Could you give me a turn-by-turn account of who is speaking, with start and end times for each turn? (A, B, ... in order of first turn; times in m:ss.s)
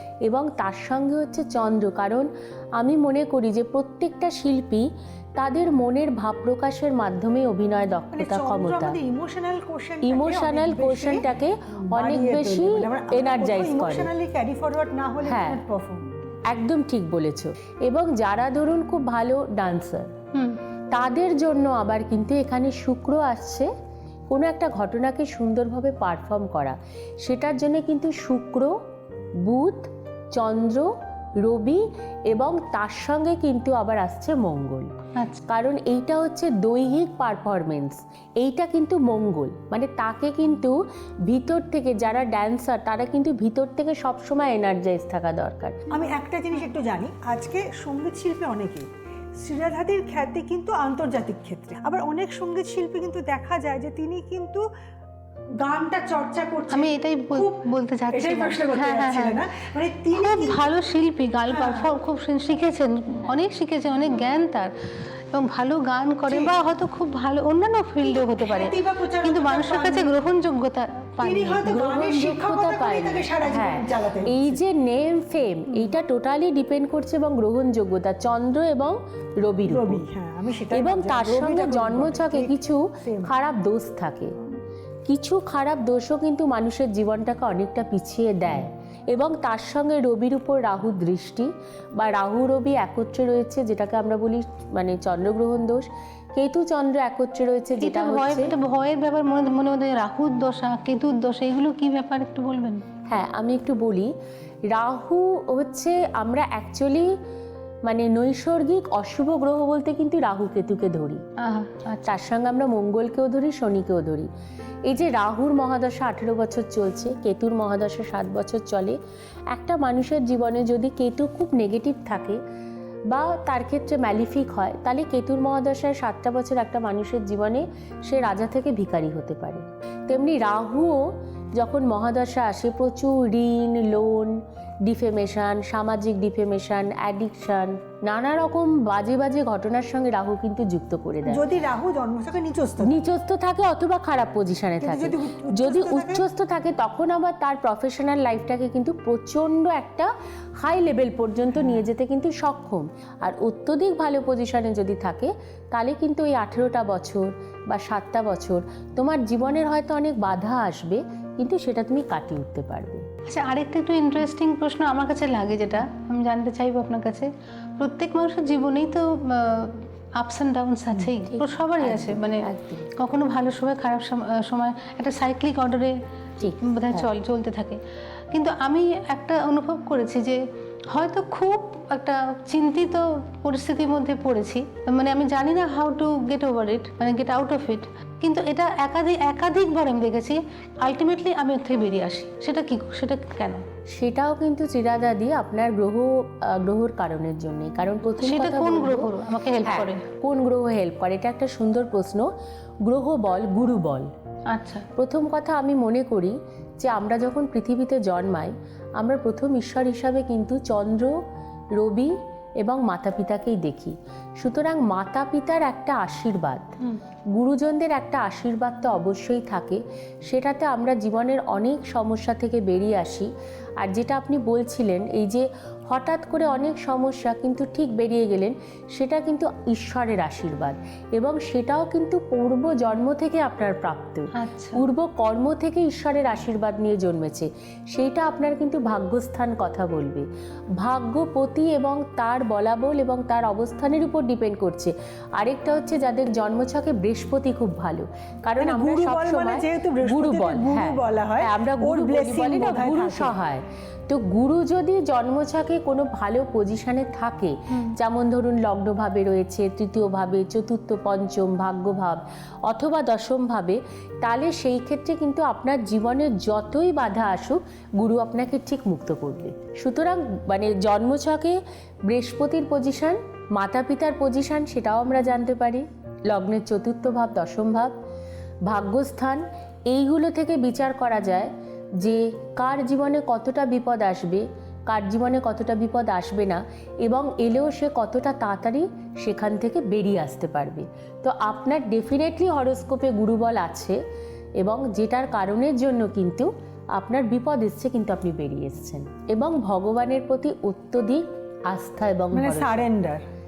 0:00.3-0:09.0 A
0:08.1-0:16.2 B
0:10.0-0:14.1 A
0:15.3-0:15.6 A
0:16.5-0:20.1 A
0:20.3-0:20.6 C
0:20.9-0:23.7 A
0:24.3-0:28.8 A
0:29.4-0:34.9 A
0:35.2-0:35.4 C
0:35.5-0:45.8 A
0:45.9-0:48.9 B
0:49.4-0:54.7 B
0:55.6-1:00.7 B
0:56.7-0:59.4 C
1:00.2-1:04.7 C
1:01.5-1:01.9 B
1:05.3-1:08.7 C
1:06.3-1:06.6 B
1:08.0-1:10.1 B
1:09.2-1:11.9 C
1:11.2-1:14.6 B
1:11.6-1:20.0 A
1:19.7-1:23.3 B
1:20.7-1:24.4 A
1:25.1-1:38.5 A
1:37.8-1:42.8 C
1:43.1-1:44.1 A
1:44.7-1:47.1 A
1:47.9-1:51.2 A
1:51.4-1:52.1 C
1:52.1-1:54.3 A
1:54.9-1:59.0 A
1:59.5-2:02.4 A
2:03.1-2:21.4 A
2:21.3-2:23.0 B
2:22.8-2:43.0 A
2:24.8-2:26.2 B
2:31.6-2:31.9 B
2:43.3-2:52.4 C
2:51.2-2:52.9 A
2:53.0-2:56.0 C
2:56.4-2:57.1 A
2:56.6-2:57.8 C
2:58.3-3:13.6 C
3:13.9-3:19.1 A
3:18.2-3:20.0 C
3:19.6-3:22.3 A
3:22.8-3:24.1 A
3:24.5-3:24.9 C
3:25.0-3:31.1 A
3:31.8-3:36.7 A
3:37.4-3:43.3 A
3:43.8-4:00.3 A
3:54.4-3:54.8 C
4:00.8-4:37.9 A
4:08.6-4:13.4 B
4:38.7-4:54.0 A
4:54.6-5:02.9 A
5:02.3-5:03.2 B